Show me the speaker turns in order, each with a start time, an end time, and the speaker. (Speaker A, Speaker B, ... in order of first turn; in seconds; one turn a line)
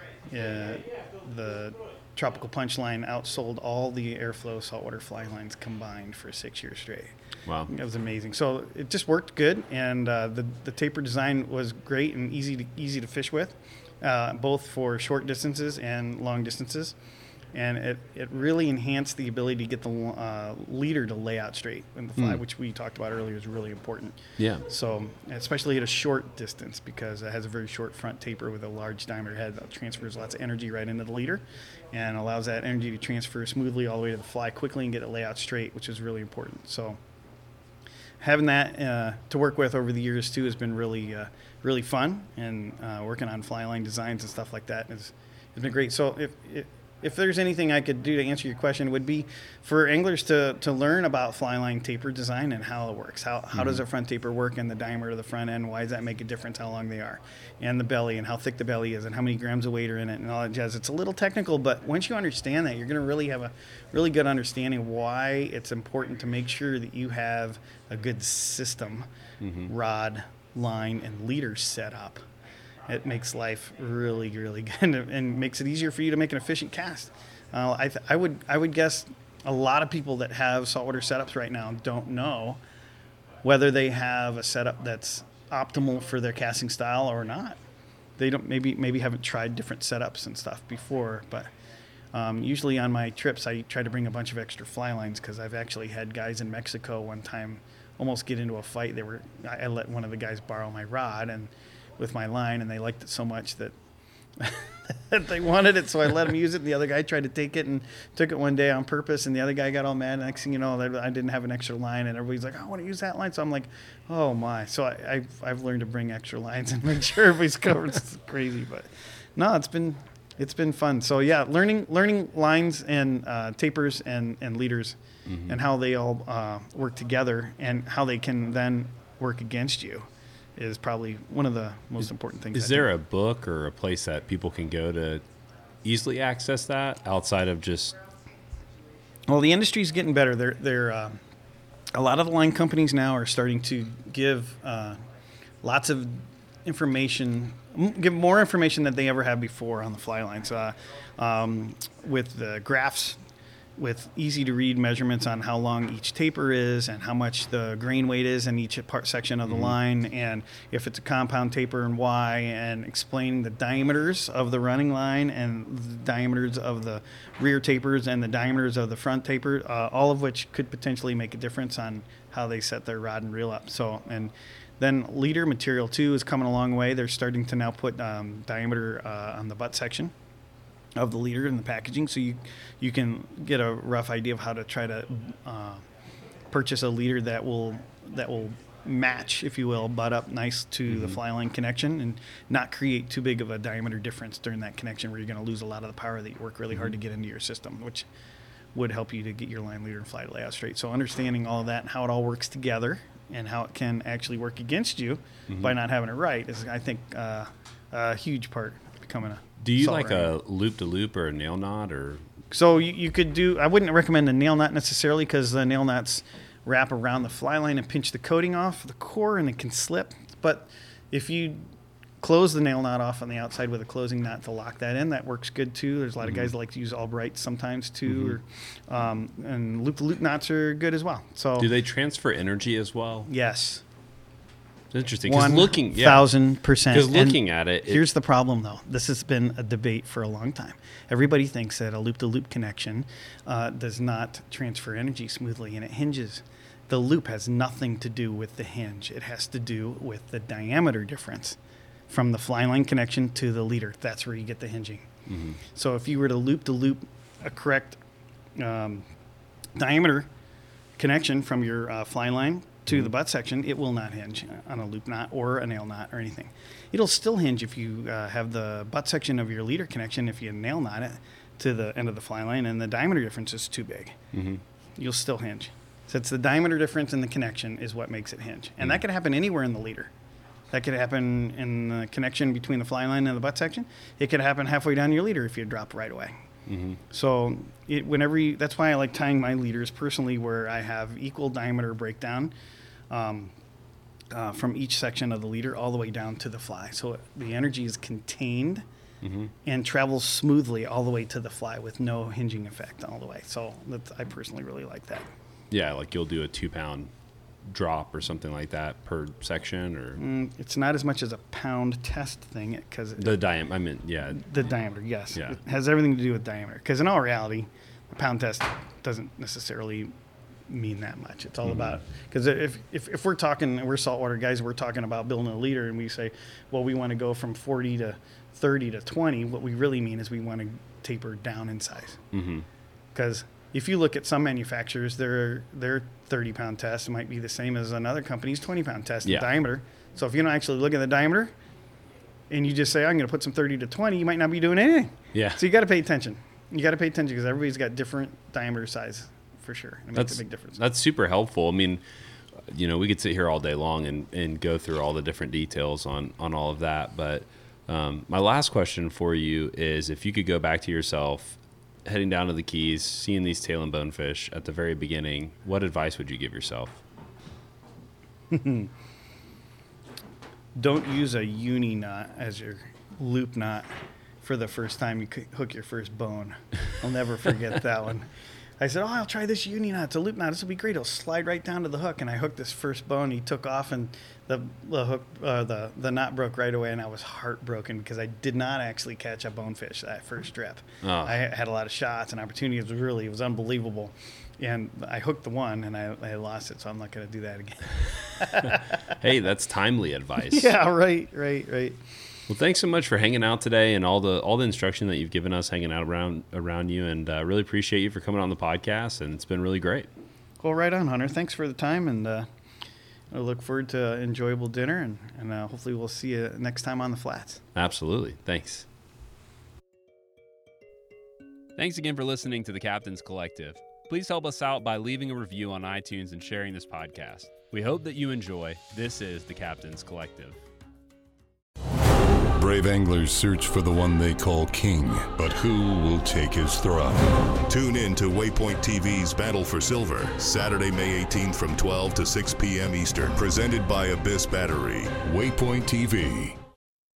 Speaker A: 0.3-7.2
Speaker A: 7.7-16.9
Speaker A: 17.5-37.0
Speaker B: 24.4-24.7
Speaker A: 38.2-69.1
Speaker B: 53.5-53.8
Speaker B: 69.4-69.7
Speaker A: 69.7-72.2
Speaker A: 72.9-82.6
Speaker A: 83.4-87.6
Speaker A: 88.2-91.5
Speaker A: 92.1-103.7
Speaker A: 104.4-130.1
Speaker B: 125.3-125.6
Speaker A: 130.6-132.9
Speaker B: 132.5-135.2
Speaker B: 135.8-138.0
Speaker A: 139.3-141.2
Speaker A: 141.9-145.0
Speaker A: 145.6-153.2
Speaker A: 153.8-180.1
Speaker B: 159.5-159.8
Speaker A: 181.0-185.8
Speaker A: 186.5-198.1
Speaker B: 190.9-191.2
Speaker A: 198.8-210.3
Speaker B: 209.6-212.3
Speaker A: 212.5-221.6
Speaker A: 222.2-231.7
Speaker B: 226.2-226.5
Speaker B: 228.1-228.4
Speaker B: 231.6-233.3
Speaker A: 233.3-233.8
Speaker B: 234.9-236.3
Speaker A: 235.3-251.6
Speaker B: 236.9-238.1
Speaker A: 252.1-255.1
Speaker B: 255.3-255.6
Speaker A: 255.7-258.0
Speaker A: 258.6-259.1
Speaker A: 259.8-260.3
Speaker A: 261.0-274.2
Speaker B: 274.3-274.6
Speaker A: 275.0-280.1
Speaker A: 280.7-286.4
Speaker B: 286.7-287.0
Speaker A: 287.1-292.5
Speaker A: 293.1-293.5
Speaker A: 294.3-298.9
Speaker B: 299.2-299.5
Speaker A: 299.6-305.3
Speaker B: 305.7-307.1
Speaker B: 307.7-310.2
Speaker A: 310.2-313.4
Speaker B: 313.2-314.5
Speaker A: 314.3-320.1
Speaker A: 320.7-332.2
Speaker B: 321.7-322.0
Speaker B: 332.3-332.7
Speaker A: 333.1-341.5
Speaker A: 342.5-350.8
Speaker B: 345.3-345.6
Speaker B: 350.2-352.0
Speaker B: 352.7-367.0
Speaker A: 368.5-368.9
Speaker A: 370.8-373.9
Speaker A: 374.4-399.0
Speaker B: 391.0-391.4
Speaker B: 398.6-400.7
Speaker A: 400.5-402.0
Speaker B: 402.5-410.1
Speaker A: 410.6-412.5
Speaker A: 413.3-417.6
Speaker B: 417.8-418.9
Speaker B: 421.8-430.6
Speaker C: 432.6-446.6